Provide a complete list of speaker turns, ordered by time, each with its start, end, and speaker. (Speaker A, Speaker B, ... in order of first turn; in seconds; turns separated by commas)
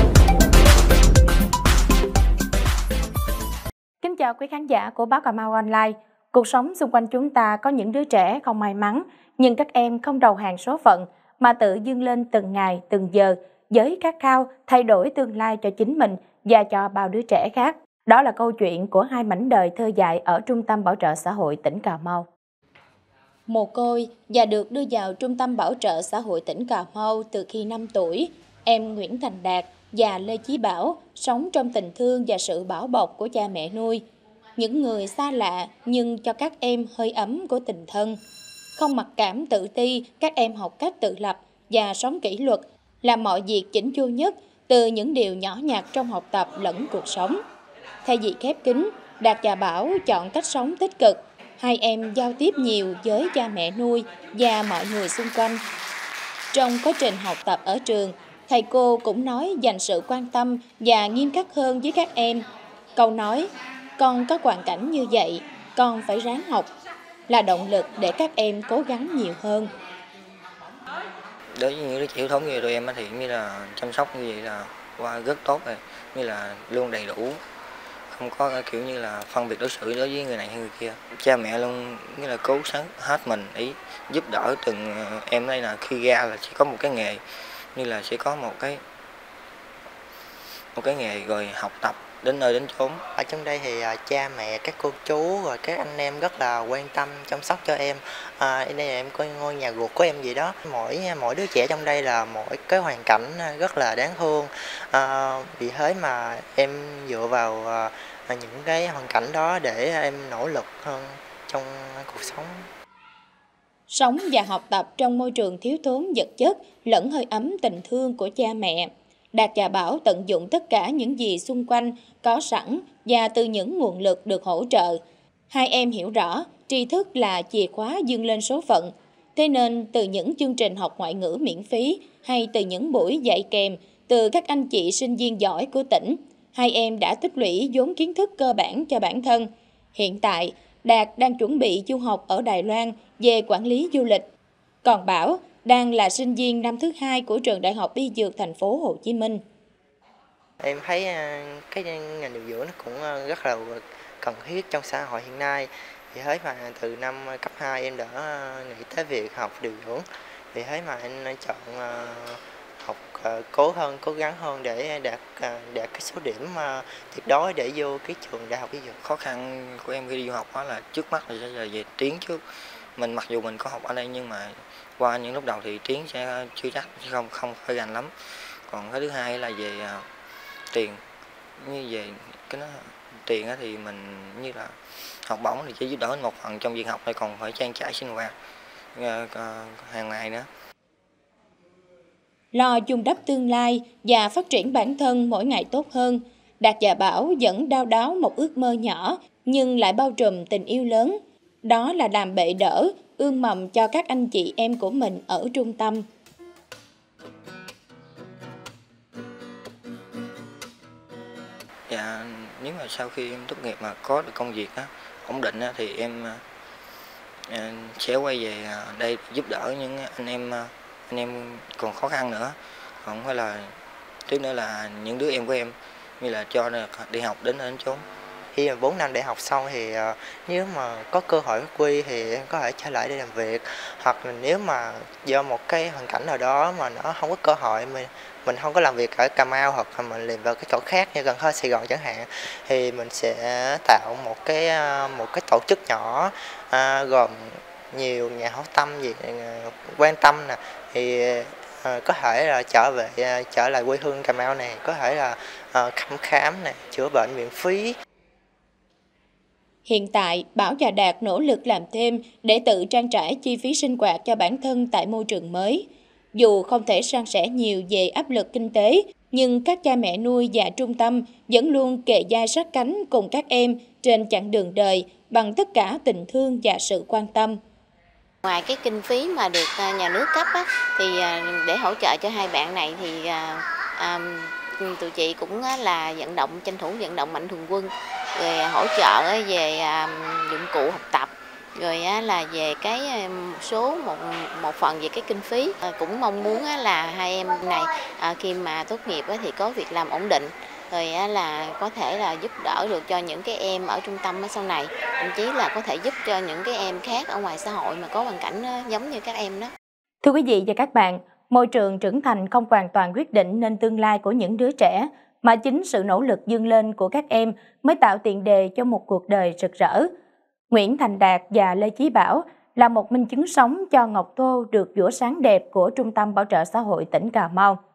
Speaker A: 4.0-22.3, Speaker A: 23.5-34.0, Speaker A: 34.5-38.2, Speaker A: 38.8-47.4, Speaker A: 48.0-55.6, Speaker A: 56.5-62.4, Speaker A: 63.0-66.7, Speaker A: 67.3-69.7, Speaker B: 71.5-77.4, Speaker B: 78.1-87.2, Speaker B: 87.7-88.8, Speaker B: 90.7-93.0, Speaker C: 93.2-112.6, Speaker A: 113.9-144.2, Speaker A: 144.8-149.4, Speaker C: 150.6-169.0, Speaker B: 169.0-172.4, Speaker B: 172.9-178.1, Speaker B: 178.7-180.1, Speaker B: 180.7-181.0, Speaker B: 181.6-184.7, Speaker B: 185.3-188.3, Speaker B: 188.9-190.5, Speaker A: 192.5-206.0, Speaker B: 211.9-216.4, Speaker B: 217.5-223.7, Speaker B: 224.3-228.0, Speaker C: 228.5-257.9, Speaker A: 259.8-277.6, Speaker D: 278.4-309.7, Speaker A: 310.2-320.1, Speaker A: 320.7-327.8